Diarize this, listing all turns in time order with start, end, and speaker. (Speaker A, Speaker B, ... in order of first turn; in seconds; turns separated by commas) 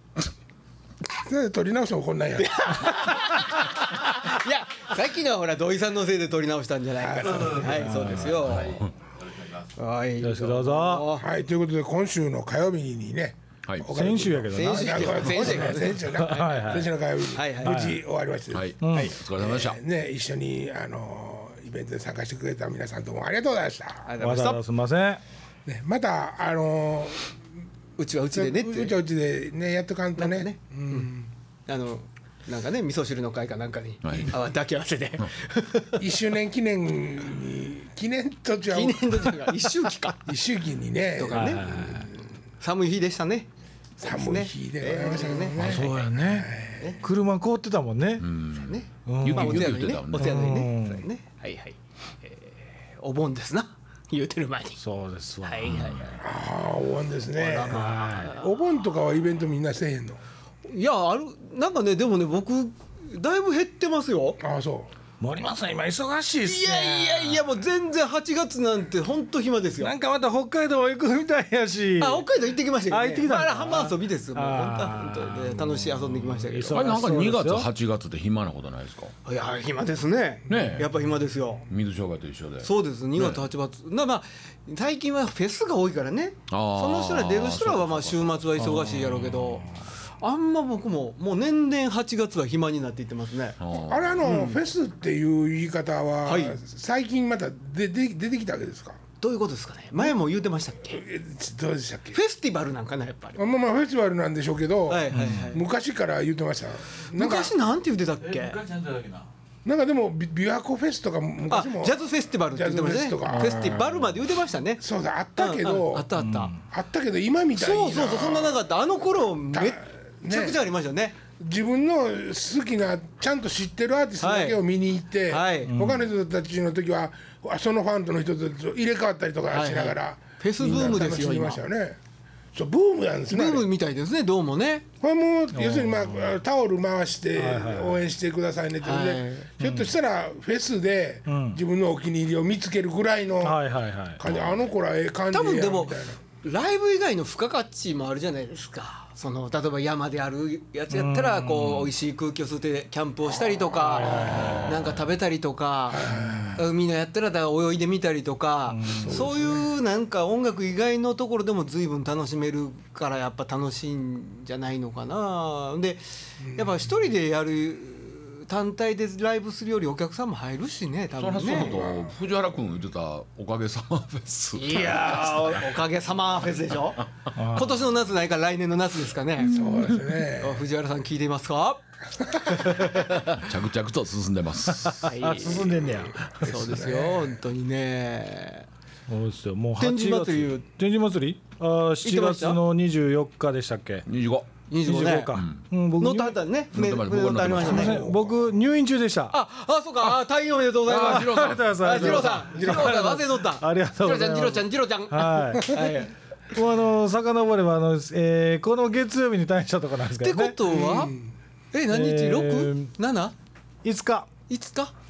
Speaker A: 1.2-3.1, Speaker B: 2.4-8.8, Speaker A: 7.0-8.0, Speaker C: 7.2-9.7, Speaker D: 7.6-8.4, Speaker E: 8.4-8.9, Speaker B: 9.8-11.3, Speaker D: 10.2-11.1, Speaker A: 11.2-18.7, Speaker E: 13.7-13.9, Speaker D: 13.9-16.9, Speaker B: 14.5-16.7, Speaker B: 17.3-17.8, Speaker D: 17.6-18.0, Speaker E: 18.5-19.8, Speaker D: 18.8-19.1, Speaker A: 19.4-24.1, Speaker B: 24.0-24.6, Speaker D: 24.2-25.2, Speaker A: 25.6-27.3, Speaker B: 28.0-29.0, Speaker A: 28.3-31.3, Speaker B: 30.1-31.1, Speaker B: 31.7-36.0, Speaker E: 34.0-34.3, Speaker A: 36.0-39.4, Speaker B: 38.7-40.3, Speaker A: 40.2-42.1, Speaker B: 41.1-42.0, Speaker D: 41.3-42.1, Speaker B: 42.6-43.5, Speaker B: 44.0-45.9, Speaker A: 44.0-46.9, Speaker D: 45.5-48.2, Speaker E: 48.2-50.4, Speaker B: 48.5-54.8, Speaker D: 49.0-51.0, Speaker D: 54.8-56.0, Speaker B: 55.4-56.1, Speaker E: 55.6-56.1, Speaker A: 56.2-60.2, Speaker B: 57.4-58.5, Speaker D: 57.7-58.3, Speaker B: 60.6-64.4, Speaker A: 64.4-64.9, Speaker D: 65.2-67.6, Speaker B: 66.4-69.9, Speaker D: 69.8-72.2, Speaker B: 72.0-76.9, Speaker D: 72.9-77.7, Speaker E: 76.7-79.1, Speaker B: 79.2-81.7, Speaker E: 80.5-80.9, Speaker E: 81.7-83.5, Speaker B: 82.6-93.6, Speaker E: 86.5-89.6, Speaker D: 88.6-89.2, Speaker E: 93.6-94.3, Speaker A: 93.8-99.0, Speaker B: 94.2-94.6, Speaker B: 96.2-96.6, Speaker B: 99.2-101.0, Speaker A: 100.8-102.2, Speaker B: 102.1-103.4, Speaker A: 103.4-107.5, Speaker B: 104.9-105.6, Speaker D: 105.1-105.5, Speaker B: 107.1-108.6, Speaker C: 108.2-109.3, Speaker A: 109.6-113.9, Speaker B: 111.5-114.8, Speaker D: 113.3-113.8, Speaker A: 114.8-116.1, Speaker B: 115.3-116.5, Speaker D: 116.2-116.6, Speaker A: 116.7-118.7, Speaker B: 117.5-121.2, Speaker A: 119.5-120.6, Speaker A: 121.4-132.0, Speaker B: 124.2-124.6, Speaker B: 125.3-125.7, Speaker D: 125.7-126.1, Speaker B: 129.5-131.6, Speaker A: 132.5-133.7, Speaker B: 133.3-134.8, Speaker A: 135.0-143.6, Speaker D: 135.5-136.4, Speaker D: 137.3-138.0, Speaker B: 138.8-139.6, Speaker D: 139.6-139.9, Speaker D: 141.3-141.6, Speaker D: 143.4-144.2, Speaker A: 144.2-146.2, Speaker E: 144.2-144.6, Speaker B: 145.3-156.0, Speaker D: 150.9-151.9, Speaker D: 153.8-154.7, Speaker A: 153.9-154.6, Speaker E: 154.3-155.0, Speaker A: 155.9-156.7, Speaker D: 156.1-156.6, Speaker B: 156.6-171.8, Speaker D: 158.7-159.3, Speaker A: 159.0-159.7, Speaker A: 166.4-166.8, Speaker E: 171.2-175.6, Speaker A: 171.6-172.1, Speaker B: 174.5-179.5, Speaker D: 177.3-177.8, Speaker A: 179.4-180.6, Speaker B: 180.4-181.8, Speaker B: 182.5-183.3, Speaker E: 183.2-185.0, Speaker D: 184.7-186.3, Speaker B: 185.0-188.7, Speaker A: 186.2-187.4, Speaker D: 189.1-194.0, Speaker B: 189.8-190.6, Speaker B: 192.0-192.6, Speaker E: 194.1-194.5, Speaker B: 194.7-195.4, Speaker D: 194.8-196.4, Speaker E: 195.3-195.6, Speaker B: 196.0-198.0, Speaker E: 196.7-197.9, Speaker A: 197.6-198.5, Speaker D: 197.6-199.3, Speaker B: 199.3-206.1, Speaker E: 200.8-202.4, Speaker D: 200.9-206.0, Speaker D: 206.5-210.6, Speaker B: 210.2-211.1, Speaker A: 210.7-211.3, Speaker B: 211.7-213.3, Speaker D: 211.9-212.9, Speaker D: 213.8-214.3, Speaker B: 214.5-214.9